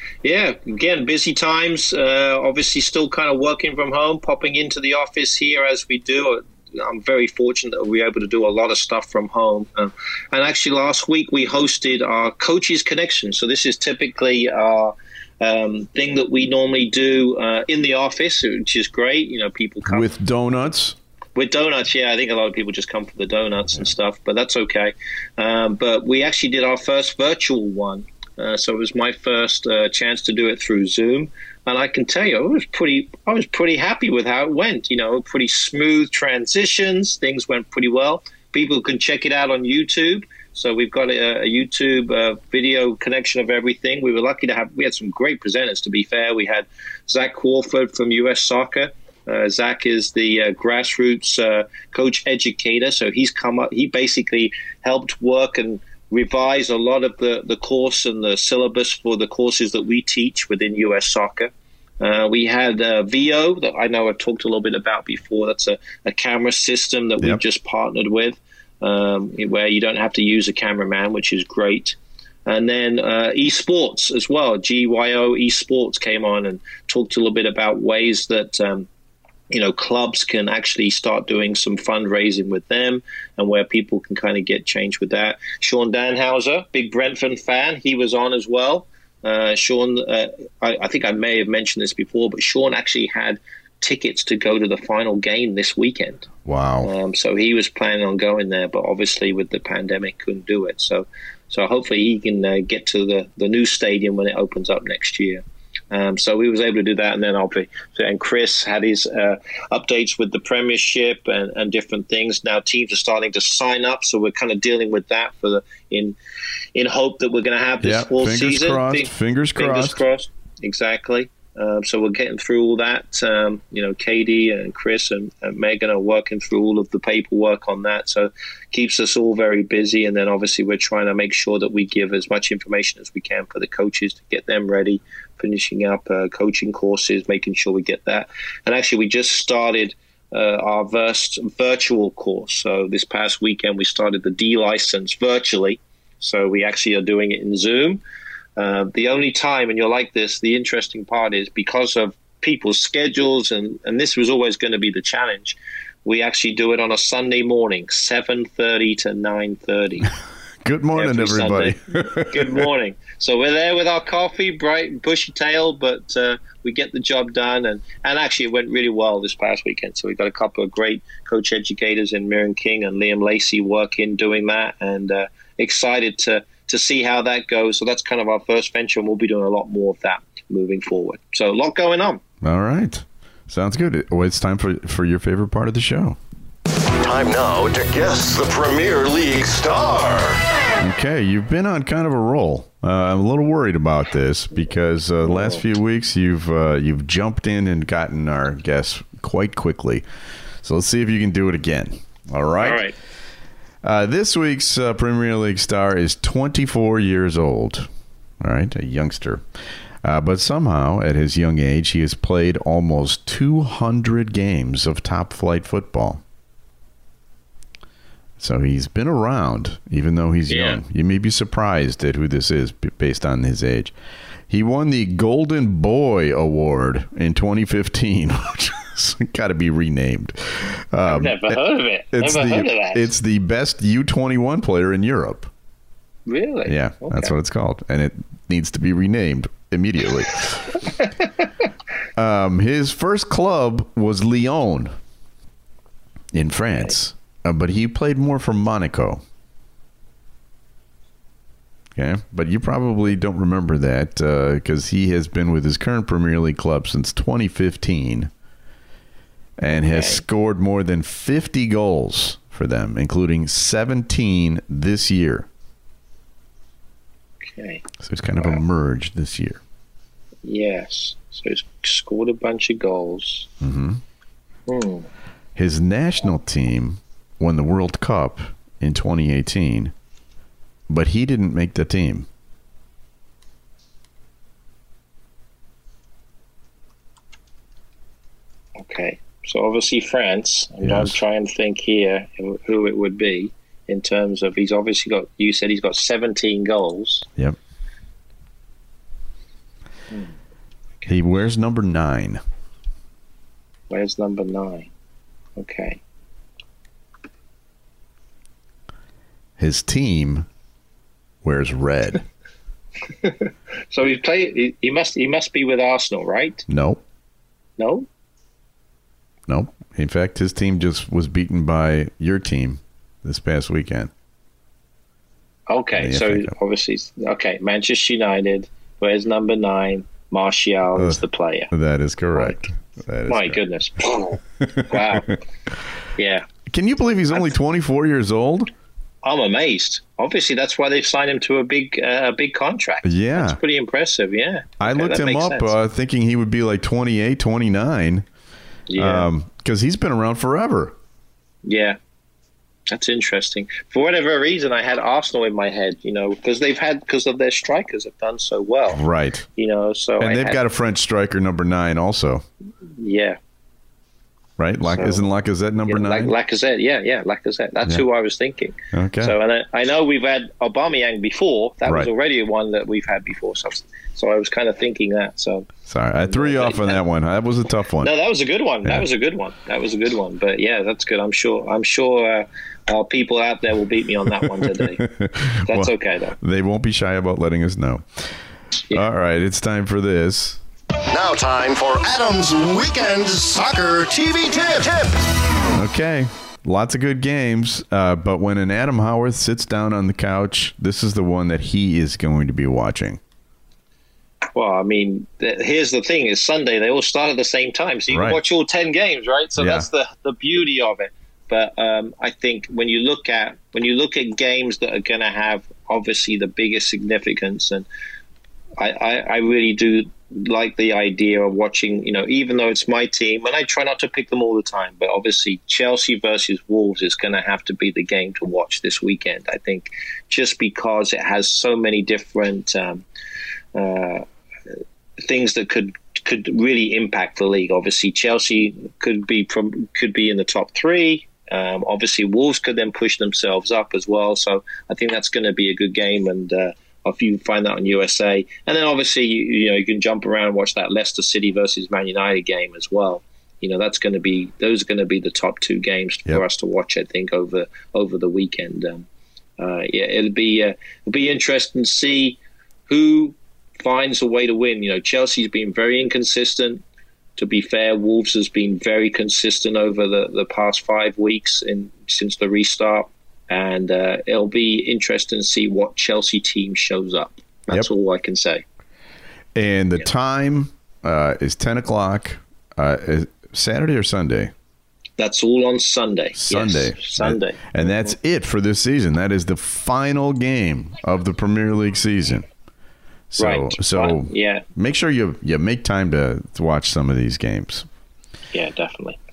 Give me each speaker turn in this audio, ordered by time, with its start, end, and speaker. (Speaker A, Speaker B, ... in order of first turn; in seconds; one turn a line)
Speaker A: 0.2-20.1
Speaker B: 19.9-21.0
Speaker A: 21.4-78.9
Speaker A: 79.5-96.3
Speaker B: 96.4-96.9
Speaker A: 96.8-116.2
Speaker A: 116.7-148.0
Speaker B: 117.8-120.0
Speaker A: 148.6-160.1
Speaker B: 160.6-162.6
Speaker A: 160.9-182.2
Speaker B: 182.4-186.2
Speaker C: 187.0-190.4
Speaker B: 190.8-200.1
Speaker B: 200.6-202.8
Speaker A: 202.6-202.9
Speaker B: 203.8-207.9
Speaker B: 208.4-209.4
Speaker B: 210.0-216.2
Speaker B: 218.4-223.9
Speaker A: 220.5-220.8
Speaker B: 224.5-231.6
Speaker A: 231.1-233.1
Speaker B: 232.1-235.5
Speaker A: 236.3-237.3
Speaker B: 236.7-240.8
Speaker B: 242.2-244.9
Speaker B: 246.3-249.2
Speaker B: 251.9-258.3
Speaker B: 259.6-265.5
Speaker A: 259.7-260.2
Speaker A: 267.5-267.8
Speaker B: 268.0-269.6
Speaker A: 270.4-273.5
Speaker B: 273.6-274.0
Speaker A: 274.7-275.1
Speaker B: 275.6-279.9
Speaker B: 280.9-282.3
Speaker A: 288.8-297.3
Speaker B: 290.8-291.1
Speaker B: 301.1-302.4
Speaker A: 303.9-304.9
Speaker A: 305.6-306.0
Speaker B: 309.6-310.5
Speaker B: 311.4-312.2
Speaker A: 313.2-316.6
Speaker B: 316.7-317.0
Speaker A: 317.8-318.1
Speaker B: 319.5-324.1
Speaker A: 325.7-331.7
Speaker B: 325.9-326.5
Speaker B: 331.7-333.6
Speaker A: 333.3-335.3
Speaker B: 334.8-335.2
Speaker A: 336.2-336.4
Speaker B: 336.7-338.7
Speaker A: 339.2-345.7
Speaker B: 343.0-343.6
Speaker B: 344.8-348.2
Speaker A: 348.9-349.3
Speaker B: 349.0-350.9
Speaker A: 351.6-352.0
Speaker A: 352.9-359.0
Speaker B: 358.9-359.5
Speaker A: 359.6-360.6
Speaker B: 360.2-362.4
Speaker A: 363.0-363.4
Speaker B: 364.6-366.3
Speaker A: 364.8-365.2
Speaker A: 365.9-375.7
Speaker B: 368.9-369.4
Speaker B: 375.9-378.1
Speaker A: 376.2-377.0
Speaker A: 378.0-385.0
Speaker B: 384.4-388.3
Speaker A: 385.7-386.4
Speaker B: 388.9-390.6
Speaker C: 391.1-395.2
Speaker B: 395.7-403.2
Speaker A: 404.5-417.9
Speaker B: 408.1-408.4
Speaker B: 409.6-409.9
Speaker A: 418.8-433.0
Speaker A: 433.7-434.2
Speaker A: 435.2-459.1
Speaker A: 459.6-466.8
Speaker A: 467.4-478.6
Speaker B: 479.5-484.5
Speaker A: 485.2-487.9
Speaker B: 486.3-492.4
Speaker B: 493.3-497.9
Speaker A: 493.4-494.6
Speaker A: 498.5-499.2